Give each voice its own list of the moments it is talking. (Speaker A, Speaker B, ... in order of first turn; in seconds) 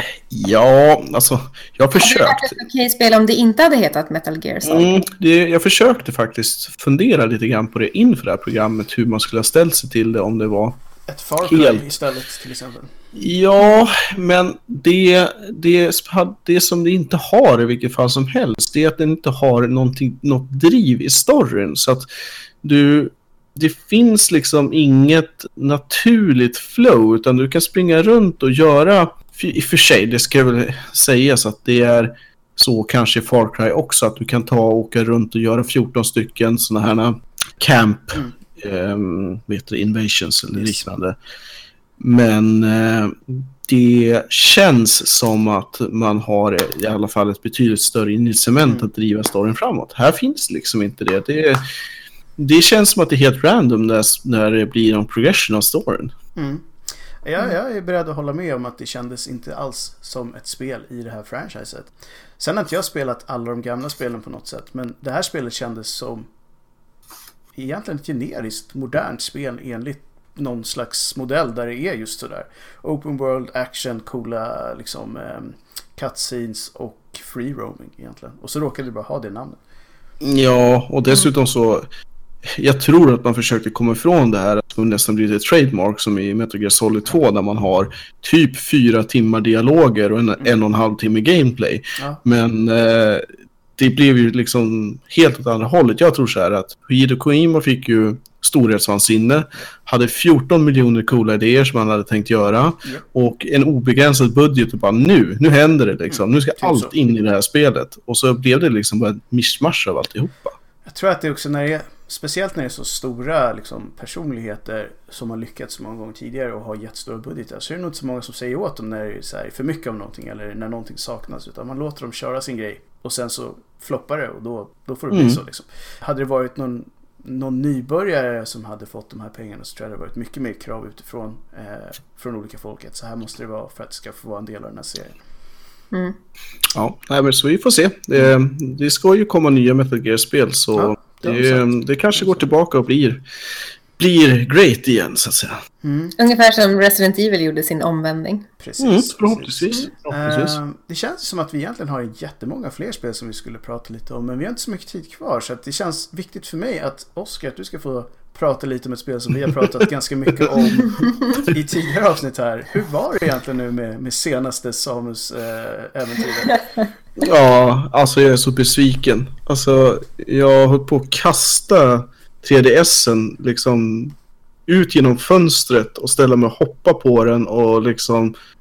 Speaker A: 0.3-2.6, 4.6-10.8, 11.4-11.9, 13.1-22.1, 22.6-41.2, 42.0-51.6, 52.4-56.1, 80.2-81.9, 82.5-110.5, 125.1-125.4, 136.8-143.2, 144.0-145.6, 148.8-150.6, 167.2-174.2, 174.7-178.3
Speaker B: 2.0-5.0, 146.2-148.5
Speaker C: 11.1-12.9, 40.5-40.9, 56.4-56.7, 57.2-66.3, 67.5-79.6, 106.1-106.9, 110.8-135.2, 140.8-142.5, 145.8-146.1, 148.6-166.6